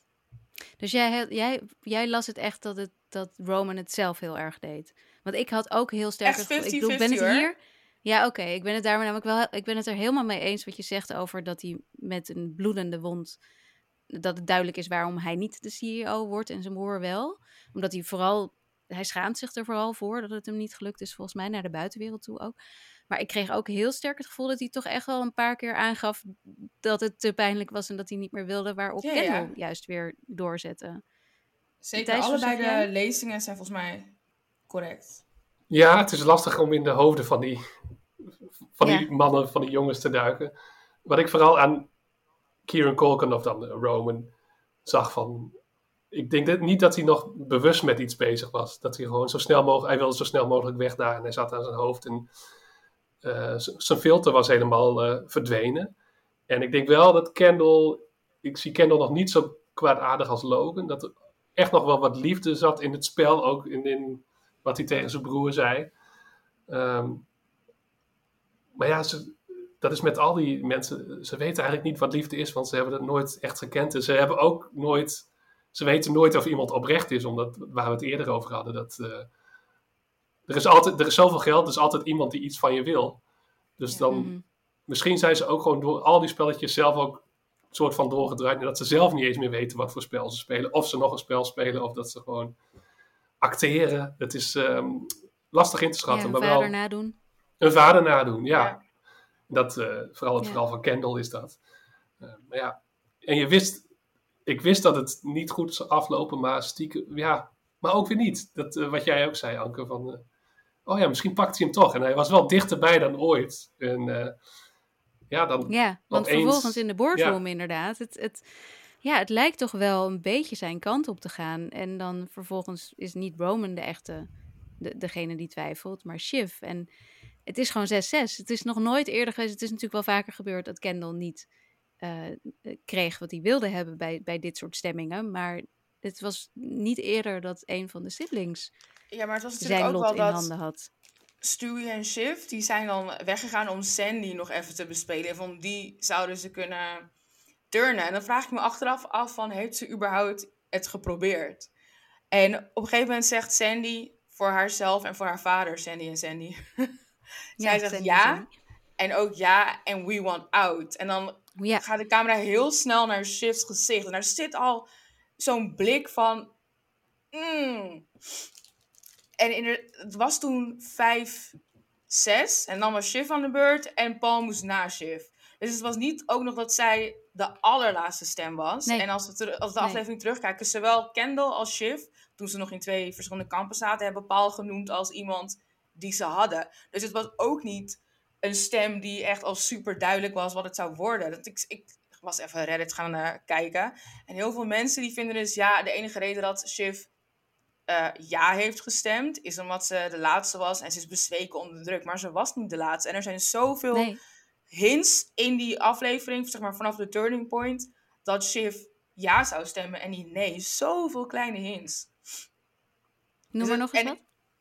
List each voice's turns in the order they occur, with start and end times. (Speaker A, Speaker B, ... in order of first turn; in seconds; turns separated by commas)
Speaker A: 0.8-13.4, Speaker B: 6.2-7.5, Speaker A: 14.1-22.6, Speaker A: 23.1-31.0, Speaker B: 29.0-29.5, Speaker B: 31.8-34.1, Speaker A: 32.0-32.9, Speaker B: 34.7-35.2, Speaker C: 35.7-37.7, Speaker C: 38.8-40.5, Speaker A: 38.8-39.1, Speaker C: 41.0-41.9, Speaker C: 42.6-44.3, Speaker C: 44.8-45.5, Speaker C: 46.1-52.3, Speaker C: 53.2-55.9, Speaker C: 56.5-65.9, Speaker C: 66.7-67.3, Speaker C: 68.8-79.3, Speaker C: 80.5-83.2, Speaker C: 83.8-92.6, Speaker A: 84.1-84.4, Speaker C: 93.4-96.8, Speaker A: 96.1-97.2, Speaker C: 97.6-98.8, Speaker C: 99.5-101.6, Speaker C: 102.2-103.9, Speaker C: 104.5-110.3, Speaker C: 110.8-114.4, Speaker C: 115.3-117.4, Speaker A: 115.7-118.5, Speaker A: 119.0-124.3, Speaker A: 124.8-126.9, Speaker A: 127.5-131.5, Speaker A: 132.0-138.7, Speaker B: 139.1-140.5, Speaker A: 139.6-140.9, Speaker B: 141.4-147.1, Speaker B: 147.7-151.7, Speaker B: 152.3-156.9, Speaker A: 157.6-158.5, Speaker B: 157.6-158.5, Speaker B: 159.0-164.9, Speaker A: 161.6-161.8, Speaker B: 165.4-166.5, Speaker B: 167.3-168.1, Speaker B: 169.4-171.6, Speaker B: 172.1-197.1, Speaker B: 197.9-204.1, Speaker A: 203.9-204.2, Speaker B: 204.7-212.1, Speaker A: 213.5-214.2, Speaker B: 213.6-214.2